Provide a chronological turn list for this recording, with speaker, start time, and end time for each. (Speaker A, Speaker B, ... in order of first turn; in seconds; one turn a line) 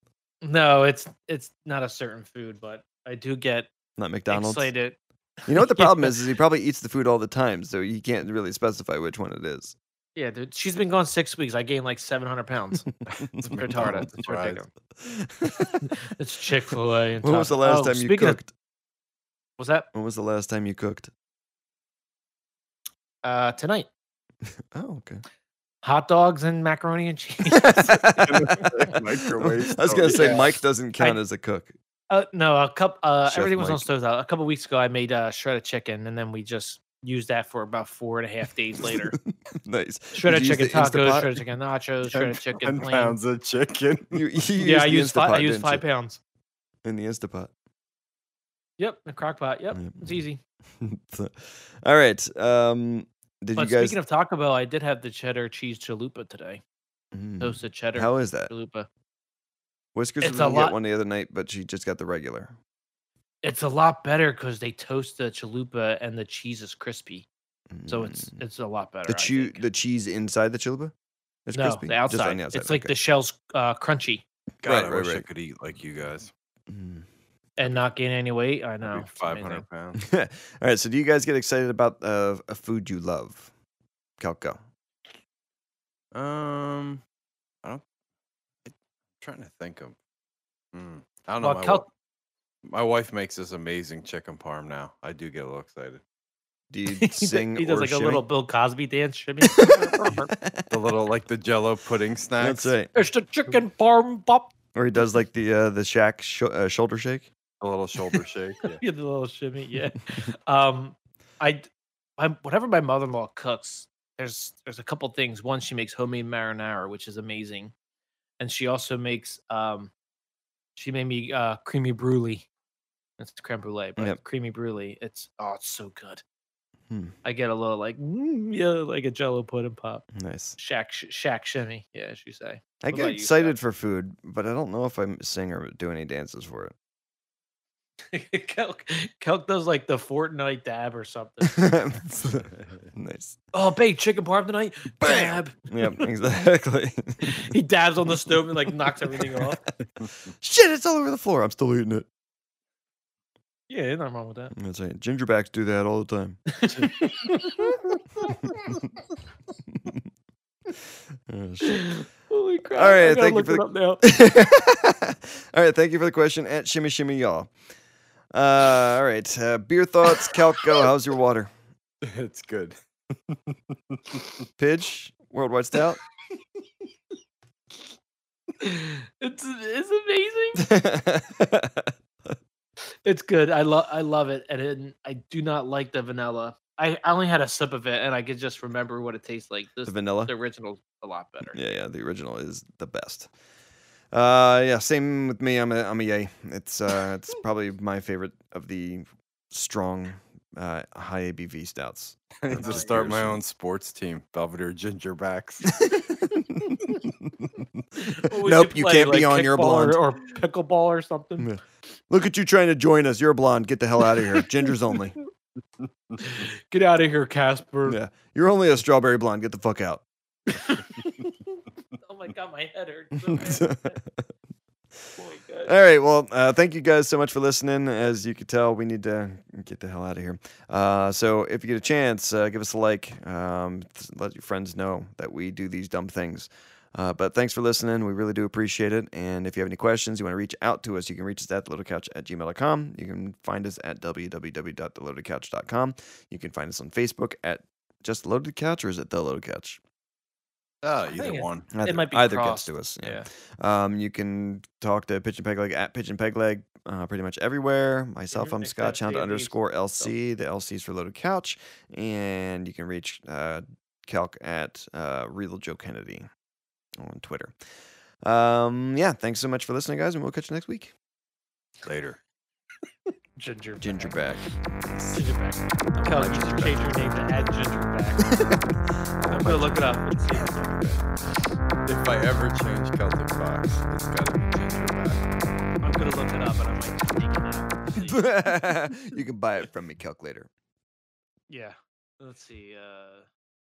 Speaker A: 0.4-3.7
Speaker B: 4.0-4.7
Speaker A: 4.3-6.2
Speaker B: 5.5-9.7
Speaker A: 10.2-12.9
Speaker B: 13.2-14.1
Speaker A: 13.4-14.7
Speaker C: 13.5-14.6
Speaker B: 15.0-15.9
Speaker A: 15.8-18.4
Speaker B: 17.2-18.5
Speaker A: 19.6-19.9
Speaker B: 19.9-21.1
Speaker A: 23.2-23.9
Speaker B: 24.7-25.2
Speaker A: 25.8-28.6
Speaker B: 27.5-31.7
Speaker C: 28.0-30.5
Speaker A: 30.0-30.4
Speaker A: 32.1-39.1
Speaker B: 33.2-33.9
Speaker B: 38.8-41.4
Speaker A: 40.1-43.1
Speaker C: 42.1-44.2
Speaker B: 44.1-45.8
Speaker A: 44.6-46.2
Speaker B: 46.8-47.5
Speaker A: 48.8-50.4
Speaker B: 49.7-50.2
Speaker B: 50.8-54.0
Speaker A: 53.5-56.6
Speaker B: 57.1-58.5
Speaker A: 57.4-58.9
Speaker B: 59.9-62.5
Speaker A: 60.2-60.8
Speaker A: 63.4-67.3
Speaker B: 67.7-68.3
Speaker A: 67.9-69.6
Speaker B: 69.1-70.9
Speaker B: 71.5-72.9
Speaker A: 71.5-74.2
Speaker C: 74.6-76.3
Speaker B: 74.6-75.2
Speaker B: 76.7-77.1
Speaker A: 77.6-79.6
Speaker C: 78.8-80.0
Speaker B: 80.0-83.5
Speaker B: 84.2-84.6
Speaker C: 86.1-87.0
Speaker C: 88.7-90.0
Speaker C: 90.7-91.9
Speaker A: 91.4-91.8
Speaker C: 92.6-96.0
Speaker B: 96.7-98.2
Speaker A: 97.0-100.3
Speaker B: 99.4-100.7
Speaker C: 100.7-102.7
Speaker B: 102.4-102.9
Speaker A: 102.9-104.5
Speaker B: 104.7-107.3
Speaker C: 107.6-108.8
Speaker A: 108.6-111.7
Speaker A: 112.2-117.7
Speaker A: 118.4-119.9
Speaker A: 120.8-122.5
Speaker A: 123.2-126.2
Speaker B: 126.9-127.1
Speaker A: 127.2-130.0
Speaker B: 130.1-130.6
Speaker A: 130.6-133.6
Speaker B: 132.8-136.7
Speaker A: 138.1-141.7
Speaker B: 141.4-143.4
Speaker A: 143.5-146.1
Speaker B: 145.0-147.5
Speaker A: 147.2-149.6
Speaker B: 148.5-149.5
Speaker B: 150.2-152.1
Speaker A: 153.7-154.5
Speaker B: 154.5-156.4
Speaker A: 156.5-158.6
Speaker B: 159.7-160.0
Speaker B: 161.3-161.9
Speaker A: 161.6-164.0
Speaker B: 162.7-167.5
Speaker B: 168.3-171.5
Speaker C: 172.0-172.8
Speaker C: 173.3-174.2
Speaker B: 174.6-176.0
Speaker A: 178.6-180.7
Speaker B: 180.6-181.9
Speaker A: 183.0-191.6
Speaker B: 189.8-190.3
Speaker B: 191.5-193.3
Speaker B: 194.1-203.4
Speaker C: 202.4-205.8
Speaker A: 202.6-202.9
Speaker B: 205.8-207.3
Speaker A: 208.0-211.5
Speaker B: 208.3-210.0
Speaker B: 211.4-215.2
Speaker A: 216.2-218.0
Speaker B: 217.8-220.0
Speaker A: 220.5-221.1
Speaker A: 222.0-224.0
Speaker B: 223.3-224.3
Speaker A: 225.2-225.7
Speaker B: 225.7-249.8
Speaker C: 250.8-251.7
Speaker A: 251.1-253.3
Speaker B: 251.7-266.3
Speaker A: 258.3-260.1
Speaker B: 267.0-267.6
Speaker B: 268.2-270.9
Speaker C: 271.8-272.2
Speaker A: 273.4-274.2
Speaker B: 273.8-275.3
Speaker A: 275.1-278.4
Speaker B: 275.9-276.9
Speaker C: 276.3-276.7
Speaker B: 278.2-280.0
Speaker A: 279.2-280.8
Speaker C: 280.7-281.0
Speaker C: 281.9-285.3
Speaker A: 285.8-288.3
Speaker B: 288.0-290.5
Speaker A: 291.5-293.3